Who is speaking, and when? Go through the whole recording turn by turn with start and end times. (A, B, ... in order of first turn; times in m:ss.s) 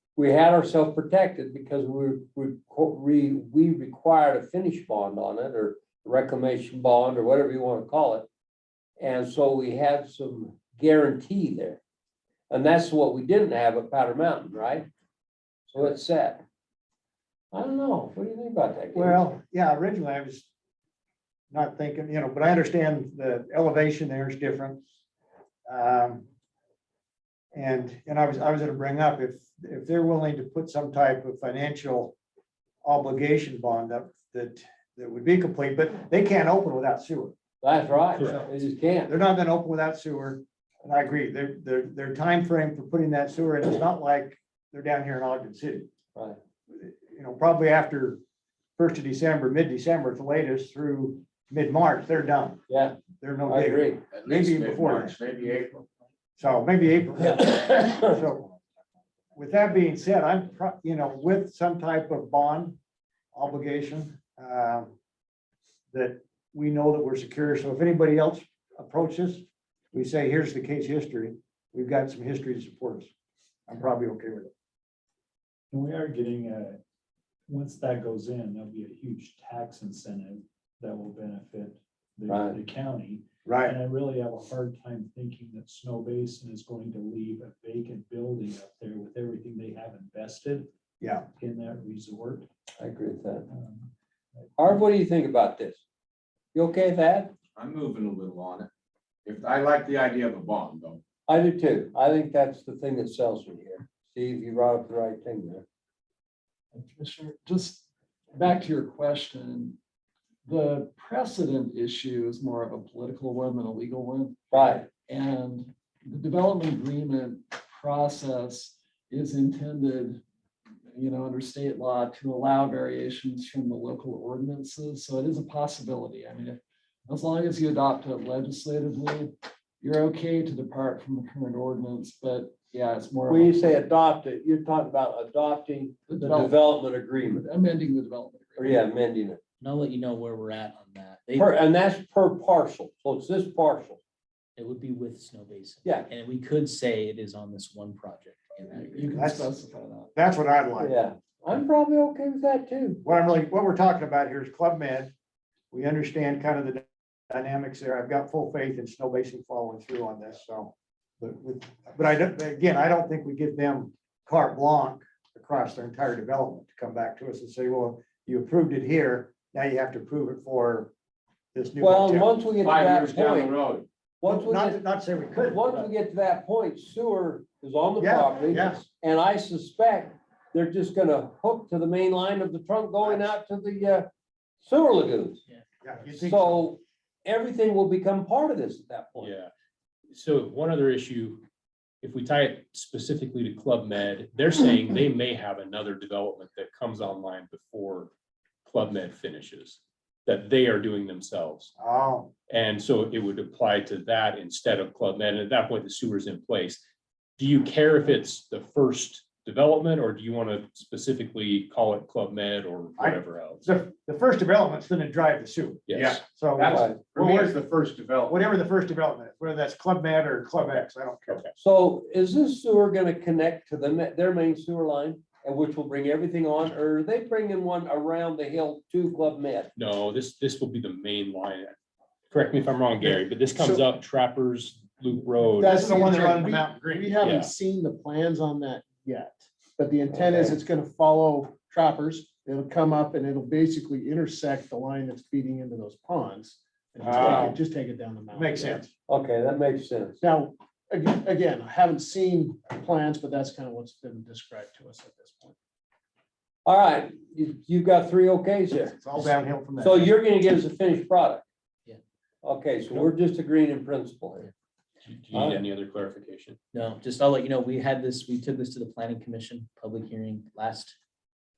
0:00.2-0:08.3 A
0:09.0-0:11.8 A
0:12.5-0:14.9 A
0:15.7-0:16.4 A
0:17.5-0:19.2 A
0:18.9-0:20.5 B
0:21.5-0:24.8 B
0:25.7-0:26.2 B
0:27.5-0:32.2 B
0:32.8-0:37.3 B
0:37.6-0:39.1 A
0:38.2-0:45.9 B
0:46.7-0:48.2 B
0:48.8-0:52.6 B
0:52.7-0:53.0 A
0:53.2-0:55.2 B
0:53.5-0:54.0 A
0:54.1-0:55.8 C
0:56.4-0:58.5 B
0:57.2-0:58.1 A
0:59.3-1:02.8 B
1:03.3-1:04.9 B
1:05.9-1:13.1 B
1:13.7-1:14.5 B
1:15.7-1:16.8 D
1:17.5-1:30.7 D
1:22.3-1:22.6 A
1:23.4-1:23.8 B
1:31.0-1:31.2 B
1:31.4-1:32.5 D
1:32.8-1:33.5 A
1:33.5-1:33.9 D
1:34.6-1:35.8 A
1:36.5-1:37.3 A
1:37.6-1:38.7 C
1:39.2-1:41.0 C
1:41.3-1:45.6 A
1:46.7-1:49.8 E
1:50.4-2:00.2 E
1:54.5-1:54.8 A
2:00.9-2:13.8 E
2:13.3-2:17.4 A
2:16.1-2:18.9 E
2:18.6-2:19.4 A
2:19.6-2:21.5 F
2:21.4-2:24.0 A
2:24.6-2:29.2 F
2:28.8-2:30.1 E
2:29.1-2:29.5 B
2:30.1-2:31.0 B
2:30.8-2:33.0 A
2:33.0-2:35.1 B
2:35.7-2:50.9 B
2:51.5-2:52.3 B
2:51.8-2:53.6 A
2:52.6-2:53.9 C
2:54.2-2:54.8 A
2:54.2-2:55.9 B
2:55.4-3:04.1 A
2:58.0-2:58.8 B
3:04.6-3:05.4 A
3:05.8-3:06.6 B
3:06.1-3:09.3 A
3:09.2-3:09.5 G
3:10.1-3:11.4 G
3:12.0-3:18.1 G
3:18.6-3:21.7 G
3:21.8-3:22.3 B
3:22.5-3:26.8 G
3:27.4-3:33.6 G
3:33.0-3:37.6 B
3:35.9-3:36.2 G
3:36.1-3:38.4 C
3:36.7-3:37.0 A
3:38.3-3:41.4 B
3:41.6-3:49.7 A
3:49.8-3:51.7 G
3:52.3-3:55.9 G
3:55.6-3:57.3 B
3:55.6-4:08.8 H
3:57.2-3:57.5 G
4:00.1-4:00.5 A
4:07.0-4:07.6 B
4:08.3-4:08.9 B
4:09.1-4:10.2 A
4:10.2-4:15.6 H
4:16.6-4:19.2 A
4:19.0-4:20.1 B
4:19.8-4:21.4 A
4:22.4-4:24.5 A
4:25.0-4:26.6 G
4:25.3-4:25.6 A
4:26.7-4:31.0 F